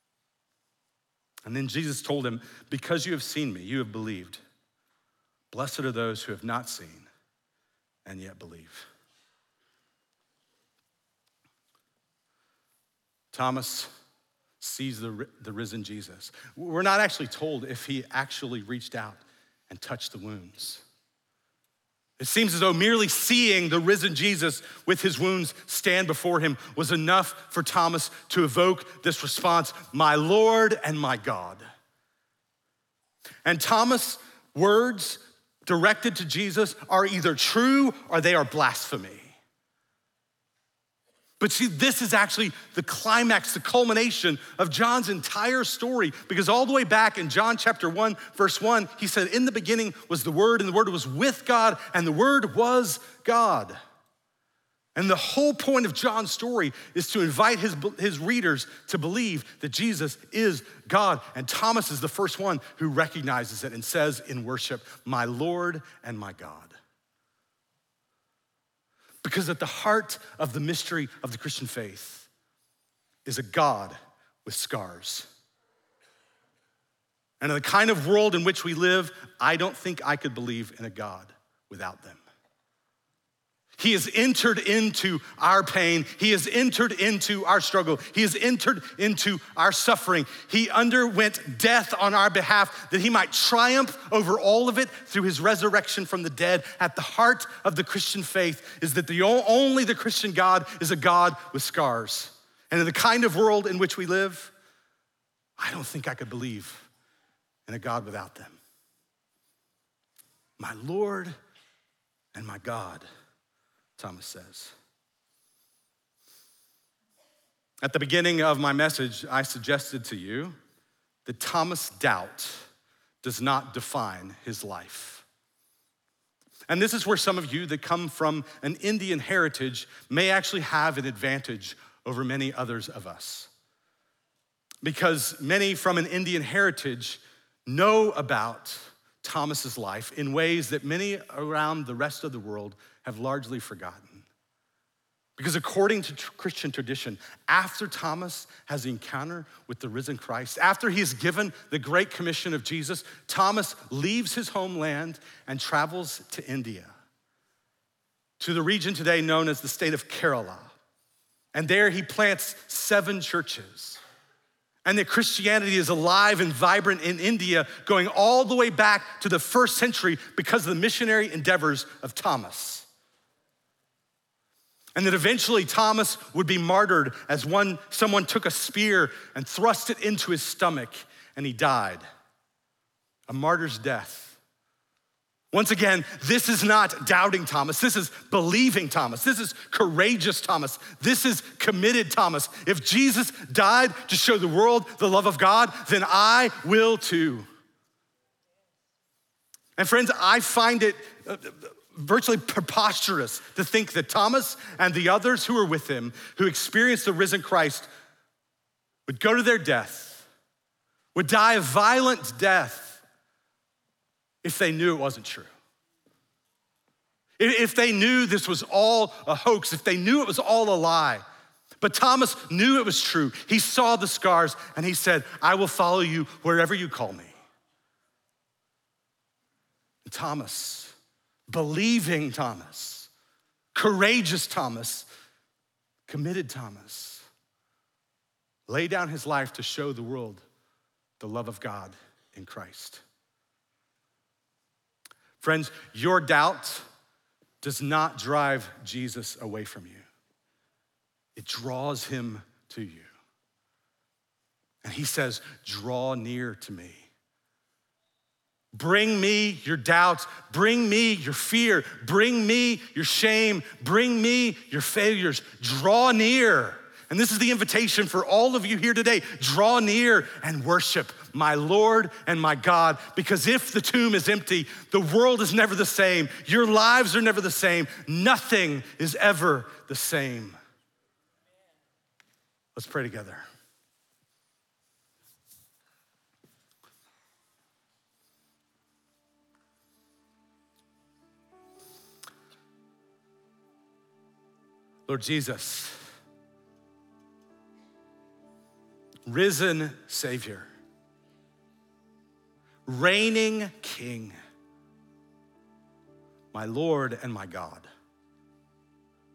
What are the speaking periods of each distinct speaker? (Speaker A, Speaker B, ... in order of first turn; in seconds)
Speaker A: 1.5-4.4, 5.5-7.1, 8.1-8.9, 13.3-13.9, 14.6-20.8, 22.2-31.6, 33.5-39.4, 41.4-53.8, 55.0-66.8, 69.2-72.3, 73.3-75.3, 77.4-82.2, 83.8-104.5, 105.6-106.9, 107.7-108.6, 110.6-111.3, 112.3-113.1, 114.0-114.7, 117.8-120.6, 121.3-122.7, 123.2-125.3, 126.7-133.5, 134.8-144.3, 145.4-156.9, 158.4-160.8, 161.5-164.0, 164.8-172.9, 174.9-182.0, 183.3-184.4, 185.5-197.5, 199.8-207.9, 209.1-210.3, 211.2-213.0, 214.4-215.5, 217.4-221.2, 221.8-227.3, 230.0-231.0, 231.5-233.1, 233.8-235.1, 236.1-237.3, 238.7-240.4, 241.2-243.0, 245.4-246.8, 247.6-250.1, 251.4-253.1, 254.8-257.1, 258.7-280.6, 282.8-283.4, 295.1-296.0, 299.3-300.7, 302.9-304.4, 306.5-307.9